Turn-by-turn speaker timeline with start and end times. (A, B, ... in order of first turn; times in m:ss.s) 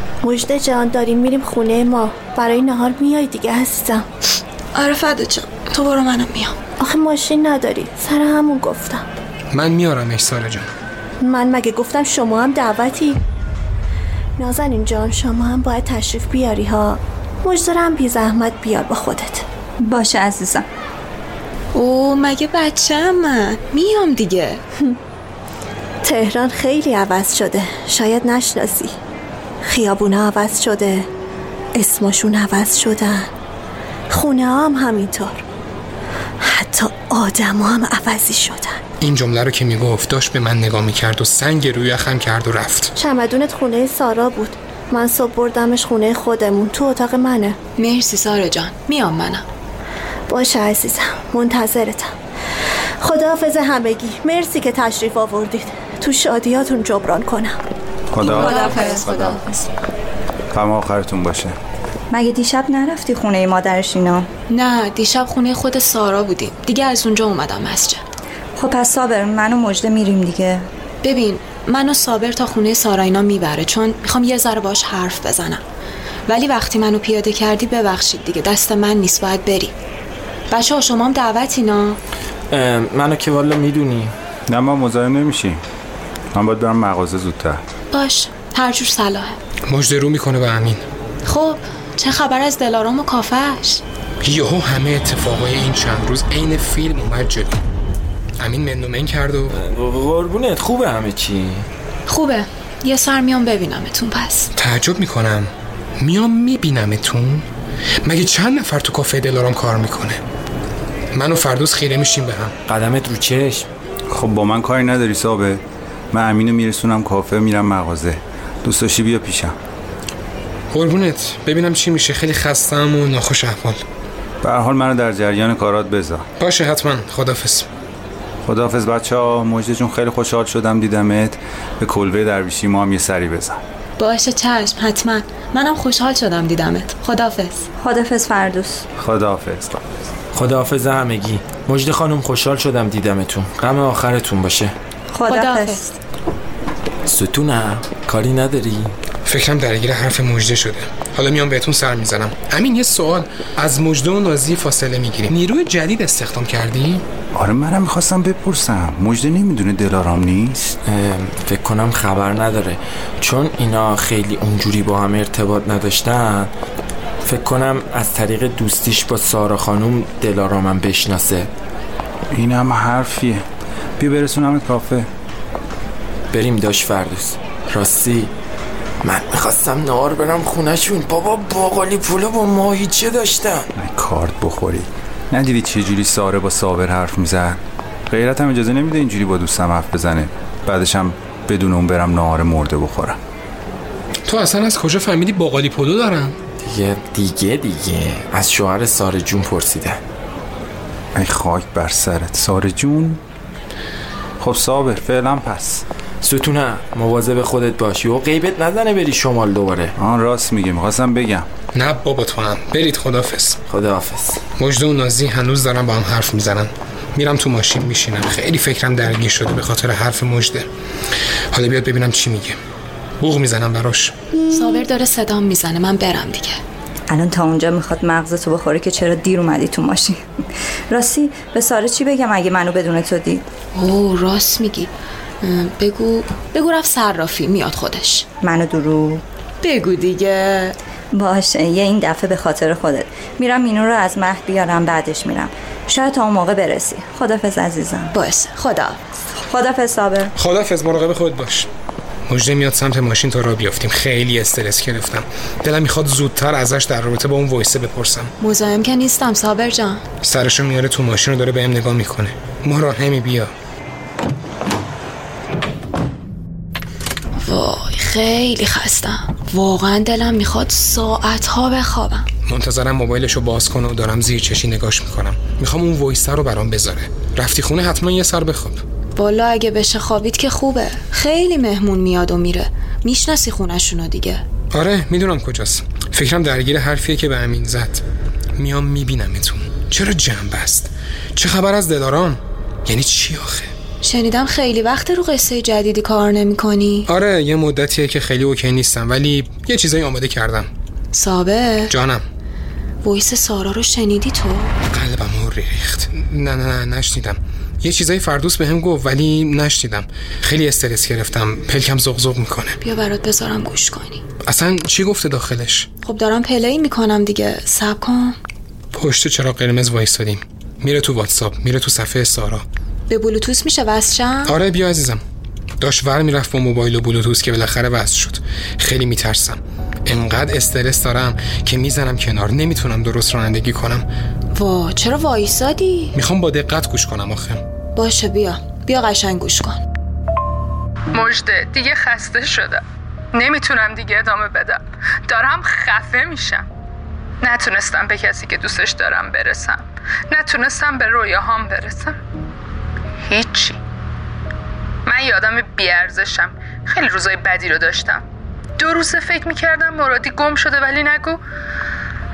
0:00.2-0:04.1 A
0:04.7-0:06.6 B
0:06.8-0:09.0 A
0:09.5-0:10.7 C
0:11.2-0:13.2 A
0:14.4-0:19.4 A
0:19.8-0:20.6 D
0:21.7-0:24.6 B
0:26.0-0:28.9 A
0:29.6-0:31.1 A
0:31.7-0:33.3 A
0:34.1-0:35.4 A
0:36.4-0:38.8 A
0:39.0-0:42.9 C
0:43.0-0:47.6 A
0:47.8-0:49.4 B
0:50.3-0:52.1 A
0:53.0-0:57.6 A
0:58.1-0:58.7 E
0:58.2-0:59.3 D
0:58.2-0:59.7 B
1:00.5-1:01.5 E
1:02.1-1:04.3 D
1:04.5-1:08.0 B
1:08.6-1:10.6 D
1:11.0-1:15.6 B
1:16.3-1:19.7 B
1:20.5-1:22.0 B
1:22.5-1:24.1 F
1:24.5-1:25.6 E
1:26.3-1:27.6 E
1:27.9-1:29.4 B
1:29.7-1:30.8 C
1:31.2-1:33.8 B
1:34.2-1:37.6 C
1:38.4-1:39.6 C
1:39.5-1:41.7 F
1:42.1-1:44.5 B
1:44.6-1:47.5 C
1:48.0-1:50.2 C
1:51.1-1:52.5 C
1:52.7-1:53.7 F
1:54.1-1:59.6 E
2:00.7-2:03.8 C
2:04.4-2:06.3 E
2:06.4-2:07.7 C
2:08.4-2:13.6 E
2:14.0-2:17.7 B
2:17.8-2:18.8 D
2:19.0-2:19.8 E
2:20.3-2:24.7 F
2:25.1-2:25.8 D
2:25.2-2:25.9 B
2:27.0-2:29.0 F
2:29.2-2:37.0 C
2:37.3-2:40.7 E
2:40.8-2:46.5 F
2:47.2-2:51.5 F
2:52.3-2:53.4 E
2:54.0-2:55.1 E
2:56.3-2:58.3 F
2:59.0-3:03.7 F
3:03.7-3:13.2 E
3:14.2-3:16.4 C
3:16.6-3:20.0 F
3:21.1-3:23.2 E
3:24.4-3:25.8 E
3:26.2-3:29.9 F
3:30.0-3:31.5 E
3:31.7-3:33.6 C
3:33.7-3:34.4 F
3:34.6-3:40.7 C
3:41.5-3:42.6 C
3:43.2-3:44.1 C
3:44.5-3:46.6 B
3:47.1-3:50.3 D
3:50.9-3:53.4 D
3:53.7-3:58.3 B
3:58.4-3:59.2 D
3:59.6-4:00.8 B
4:01.1-4:08.1 D
4:08.1-4:09.0 B
4:09.5-4:10.3 D
4:10.4-4:11.7 C
4:12.3-4:18.3 C
4:18.4-4:20.0 B
4:20.2-4:23.5 C
4:27.4-4:32.3 B
4:32.5-4:38.8 C
4:39.2-4:44.4 B
4:44.7-4:48.0 C
4:48.6-4:53.7 C
4:54.0-4:57.0 B
4:57.1-5:00.7 C
5:01.1-5:01.9 B
5:01.9-5:02.2 C
5:03.0-5:04.7 B
5:04.9-5:12.8 C
5:12.8-5:14.2 B
5:14.4-5:15.9 C
5:16.0-5:18.4 B
5:18.9-5:22.6 C
5:23.1-5:24.6 B
5:24.4-5:25.2 C
5:25.8-5:34.0 C
5:34.5-5:36.1 B
5:36.1-5:37.6 C
5:38.0-5:39.8 B
5:41.1-5:42.8 G
5:43.3-5:46.6 G
5:47.4-5:52.2 G
5:53.3-5:53.8 G
5:55.0-5:58.2 G
5:58.8-6:01.4 G